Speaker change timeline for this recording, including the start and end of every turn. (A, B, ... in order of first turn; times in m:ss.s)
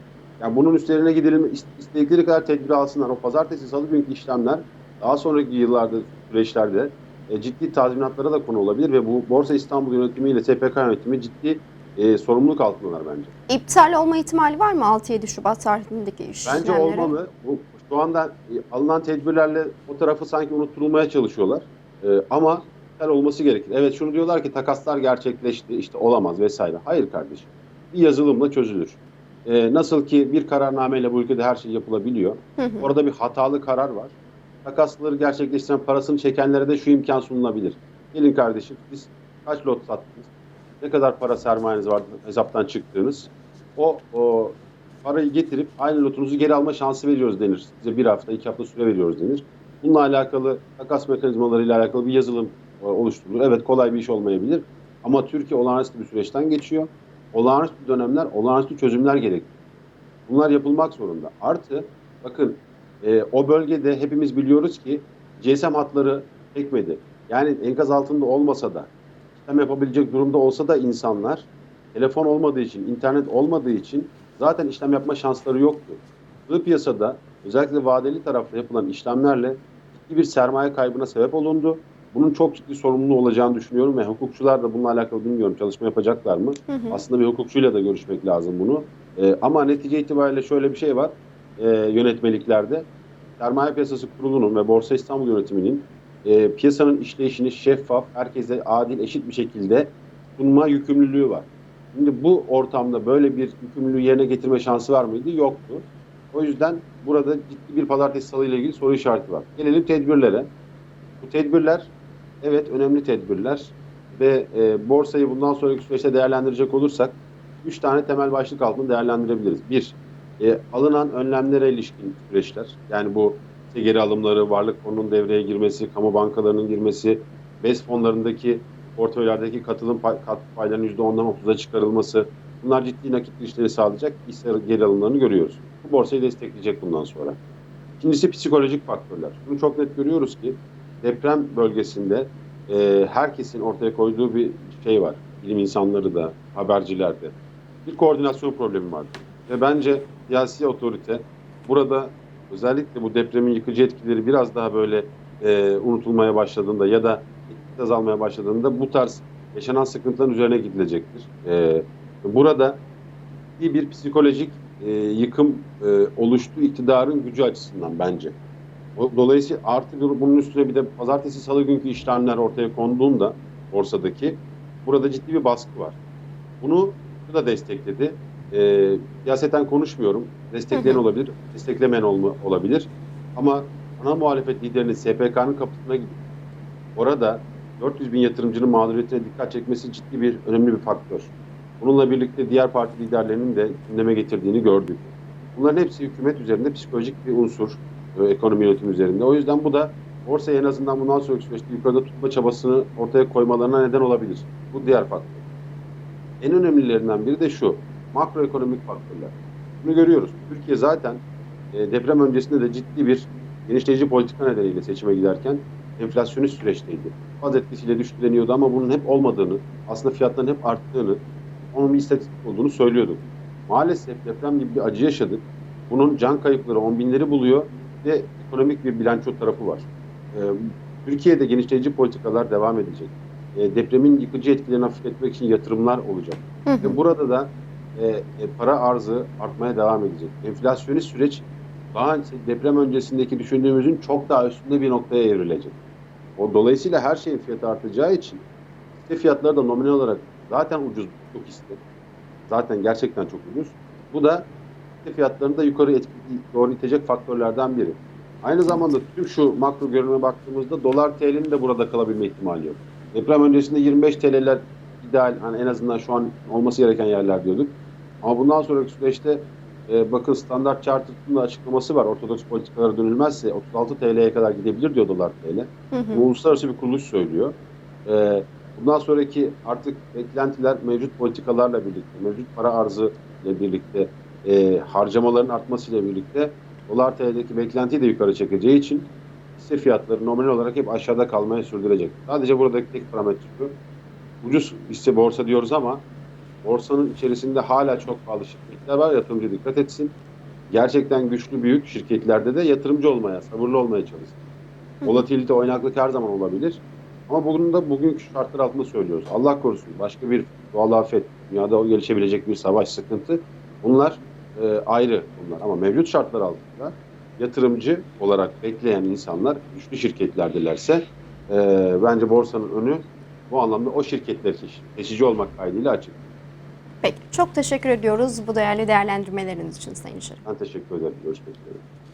0:00.4-0:13.3 A
0:13.5-0:17.1 B
0:16.5-0:40.3 A
0:32.6-0:32.9 B
0:40.8-0:59.5 A
1:00.3-1:32.9 A
1:26.7-1:27.0 B
1:33.4-1:50.5 A
1:51.2-1:51.9 A
1:52.4-2:17.4 A
2:18.0-2:42.8 A
2:43.6-2:48.4 A
2:49.0-2:56.0 A
2:56.6-3:06.2 A
3:00.7-3:01.0 B
3:07.0-3:25.4 A
3:26.4-4:05.8 A
3:56.7-3:57.0 B
4:06.4-4:08.4 A
4:09.0-4:11.8 A
4:12.5-4:14.5 A
4:15.0-4:37.6 A
4:35.9-4:36.3 B
4:38.1-4:53.8 A
4:54.4-4:56.0 A
4:56.6-5:00.2 A
5:00.7-5:04.4 A
5:05.0-5:26.2 A
5:27.0-5:30.4 B
5:30.5-5:31.8 A